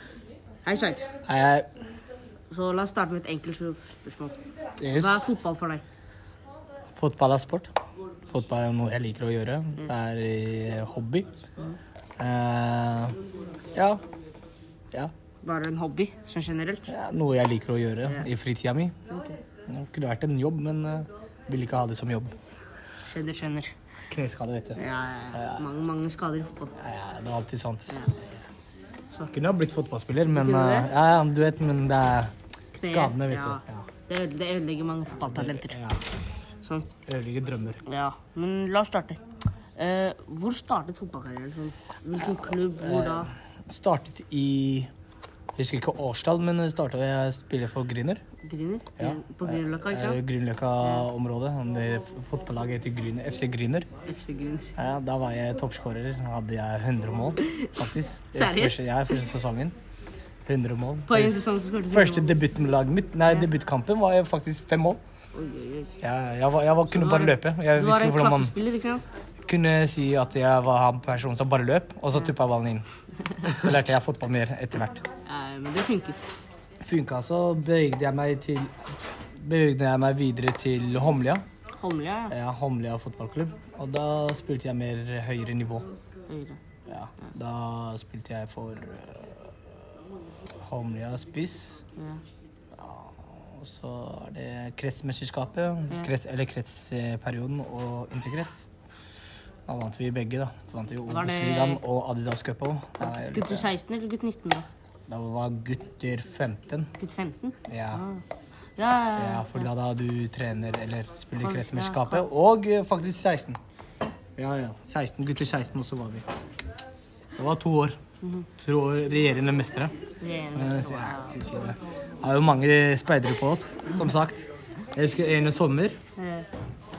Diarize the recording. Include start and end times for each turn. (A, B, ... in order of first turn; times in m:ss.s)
0:00.6-0:01.1 A
0:01.3-0:01.7 B
0:02.5-0:04.4 A
0:04.8-0:05.4 B
0:04.9-0:05.8 A
0:07.0-0:07.7 B
0:08.3-0:11.3 B
0:12.2-0:13.2 B
0:13.7-0:14.0 B
0:15.4-0:16.9 A
0:16.9-0:18.9 B
0:19.1-0:19.4 A
0:19.7-0:22.3 B
0:23.0-0:23.7 A
0:24.1-0:24.8 B
0:24.8-0:26.8 A
0:25.3-0:25.6 B
0:26.8-0:27.9 B
0:27.9-0:28.2 A
0:29.3-0:32.3 B
0:30.3-0:30.9 A
0:32.7-0:35.8 A
0:32.8-0:33.9 B
0:35.2-0:36.0 B
0:36.6-0:36.9 A
0:37.1-0:37.8 B
0:37.8-0:39.2 A
0:39.8-0:43.3 A
0:42.8-0:44.9 B
0:45.6-0:48.2 B
0:48.4-0:50.2 A
0:49.0-0:53.9 B
0:54.1-0:54.7 A
0:54.8-0:59.8 B
0:57.4-0:57.8 A
0:58.3-0:58.8 A
1:00.5-1:05.0 B
1:01.1-1:02.4 A
1:05.3-1:05.9 A
1:06.0-1:08.5 B
1:06.9-1:09.0 A
1:09.5-1:12.8 B
1:13.4-1:15.0 B
1:15.3-1:16.2 A
1:16.8-1:18.7 B
1:19.4-1:21.4 B
1:21.8-1:22.4 A
1:22.3-1:25.9 B
1:26.3-1:26.6 A
1:26.9-1:29.6 B
1:30.6-1:31.8 B
1:32.8-1:38.7 B
1:39.7-1:43.7 B
1:41.1-1:41.8 A
1:43.0-1:44.7 A
1:45.1-1:46.9 B
1:47.0-1:48.2 A
1:47.7-1:48.0 B
1:48.8-1:49.7 A
1:49.2-1:53.6 B
1:51.4-1:52.3 A
1:54.4-1:56.3 B
1:57.3-1:58.0 B
1:58.2-1:58.5 A
1:58.6-1:59.9 B
2:00.2-2:01.4 A
2:00.6-2:06.0 B
2:06.2-2:06.5 A